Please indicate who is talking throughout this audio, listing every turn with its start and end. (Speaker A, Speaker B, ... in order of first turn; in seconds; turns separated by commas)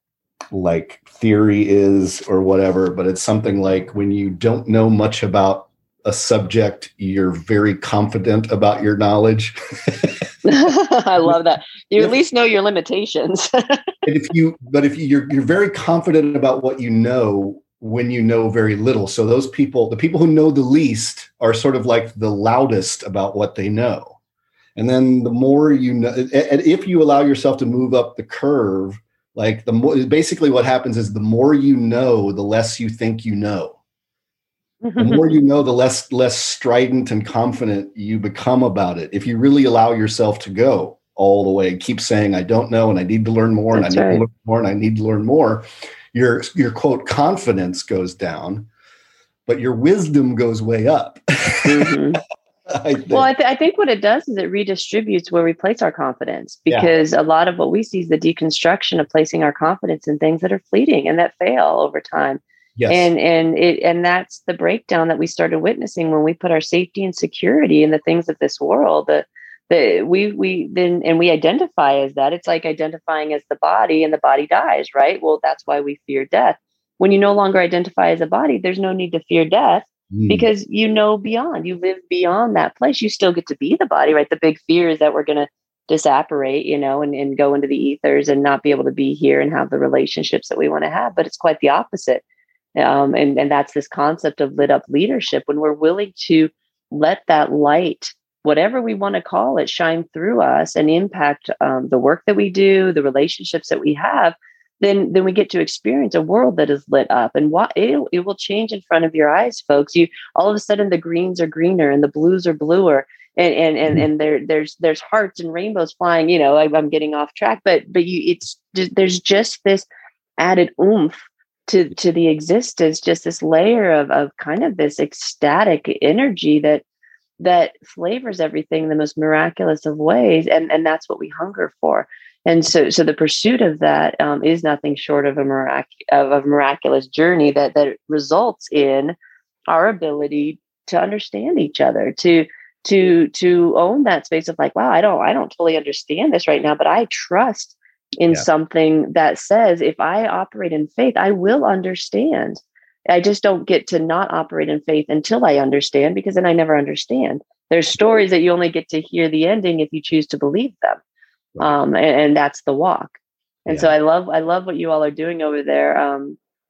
Speaker A: 0.5-10.3, Speaker B: 10.4-13.8, Speaker A: 14.0-24.2, Speaker A: 24.8-33.8, Speaker B: 34.8-35.3, Speaker A: 35.0-48.7, Speaker B: 43.7-44.2, Speaker A: 49.5-52.0, Speaker B: 51.6-52.2, Speaker A: 52.7-53.3, Speaker B: 53.1-92.2, Speaker A: 62.8-63.1, Speaker A: 80.1-80.5, Speaker B: 92.8-119.8, Speaker B: 120.4-126.8, Speaker B: 127.4-139.2, Speaker B: 139.7-161.0, Speaker B: 161.6-166.4